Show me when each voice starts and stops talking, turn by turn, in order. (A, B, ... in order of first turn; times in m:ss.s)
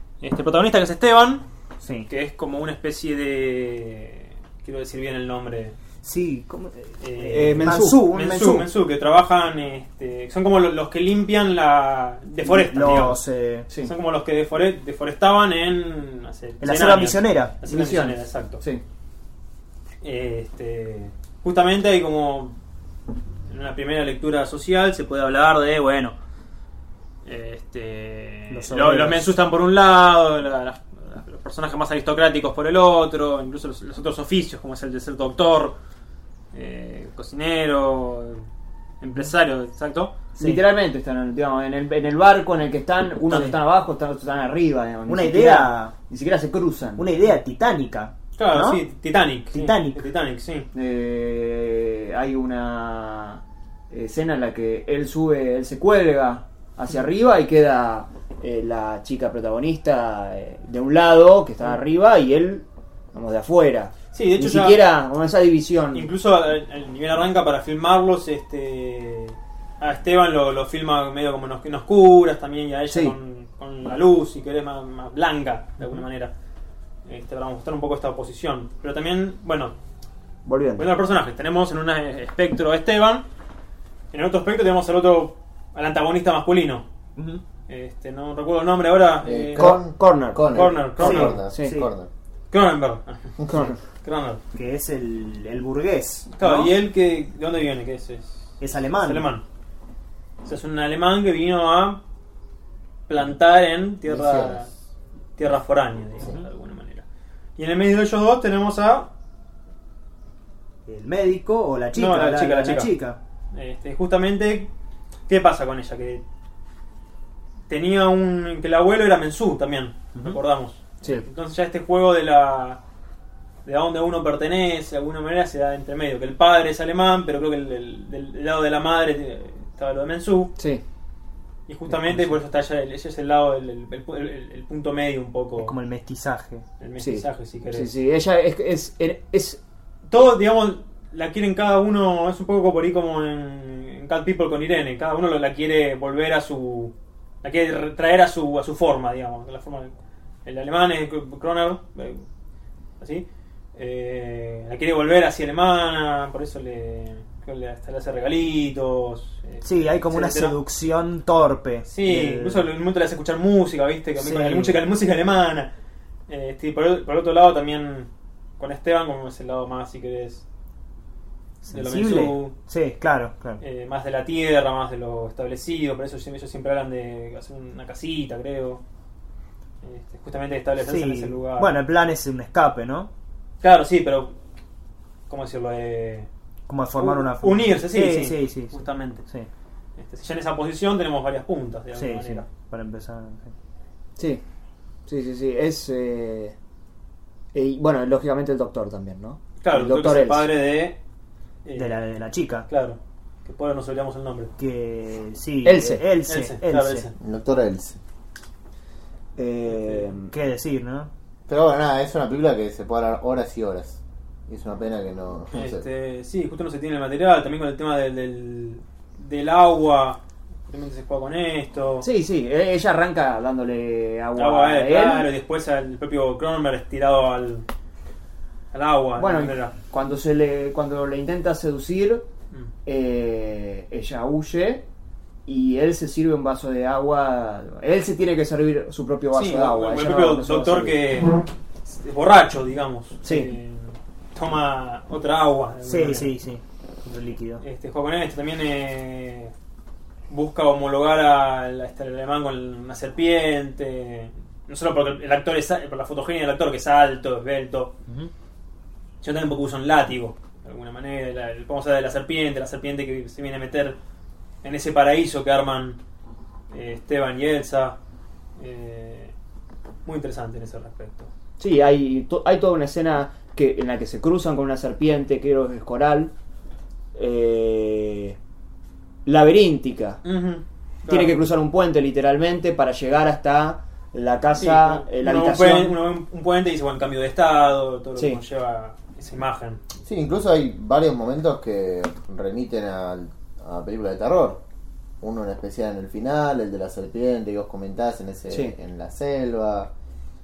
0:00.2-0:01.4 A
0:01.8-0:02.1 B
0:02.1-0:05.8 A
0:06.0-0:08.7 B
0:07.0-0:13.2 A
0:07.3-0:08.1 C
0:12.4-0:13.7 B
0:13.8-0:18.6 A
0:16.6-0:17.6 B
0:17.7-0:18.8 C
0:20.0-0:22.6 A
0:23.5-0:26.2 A
0:27.3-0:35.8 A
0:28.5-0:29.4 B
0:36.5-0:38.4 A
0:39.0-0:40.2 A
0:40.4-0:47.1 C
0:43.2-0:43.6 B
0:45.1-0:45.9 B
0:47.0-0:48.8 B
0:48.4-0:50.7 A
0:49.5-0:50.0 B
0:50.7-1:06.1 C
1:04.1-1:04.8 A
1:05.9-1:16.3 A
1:12.9-1:13.2 C
1:17.1-1:19.8 A
1:20.5-1:20.9 C
1:20.8-1:23.3 A
1:24.1-1:26.8 A
1:27.2-1:27.4 B
1:27.7-1:29.7 A
1:29.2-1:32.1 D
1:29.6-1:31.8 C
1:30.5-1:31.4 A
1:31.5-1:31.9 B
1:32.5-1:34.4 A
1:34.5-1:36.7 B
1:36.4-1:39.4 A
1:38.6-1:39.3 B
1:40.4-1:42.0 A
1:43.1-1:44.7 A
1:44.1-1:44.6 D
1:45.4-1:47.1 A
1:47.6-1:49.1 A
1:50.9-1:53.2 B
1:51.9-1:52.9 A
1:53.5-1:54.7 A
1:55.3-1:56.2 A
1:57.7-2:02.8 A
2:03.6-2:10.5 A
2:11.7-2:15.8 A
2:11.9-2:12.4 B
2:15.6-2:16.6 B
2:16.8-2:17.9 A
2:17.0-2:19.6 C
2:20.1-2:29.9 A
2:30.4-2:32.2 A
2:33.0-2:40.6 A
2:39.6-2:42.7 B
2:41.9-2:45.7 A
2:44.2-2:44.8 B
2:46.3-2:50.4 A
2:51.6-2:52.6 A
2:51.7-2:53.6 B
2:53.6-2:58.8 A
2:59.8-3:01.7 A
3:00.8-3:03.1 B
3:03.6-3:04.4 A
3:05.3-3:06.3 A
3:06.7-3:09.5 B
3:07.0-3:09.2 A
3:10.0-3:12.5 A
3:11.9-3:13.6 B
3:14.2-3:14.4 C
3:15.1-3:16.6 C
3:17.5-3:20.5 C
3:19.6-3:21.0 A
3:21.6-3:22.0 A
3:21.8-3:22.7 B
3:22.7-3:24.5 A
3:24.6-3:27.1 B
3:25.6-3:26.0 C
3:26.3-3:27.1 A
3:27.2-3:28.0 D
3:29.4-3:30.3 C
3:30.2-3:31.1 B
3:31.5-3:35.9 D
3:35.5-3:42.1 A
3:42.0-3:45.3 C
3:44.4-3:47.7 A
3:48.7-3:49.8 A
3:49.2-3:52.3 C
3:52.9-3:54.9 C
3:55.5-4:01.0 C
3:59.3-4:06.3 A
4:03.2-4:03.5 C
4:05.8-4:07.6 B
4:07.6-4:09.5 A
4:10.3-4:17.9 A
4:18.1-4:18.3 B
4:19.2-4:24.0 A
4:24.6-4:26.0 A
4:26.7-4:28.0 A
4:28.6-4:29.3 A
4:30.1-4:31.3 A
4:31.6-4:36.3 C
4:37.2-4:38.4 C
4:39.3-4:40.2 C
4:40.2-4:41.4 A
4:41.1-4:46.0 C
4:44.6-4:49.8 A
4:50.0-4:54.6 D
4:55.2-4:59.9 D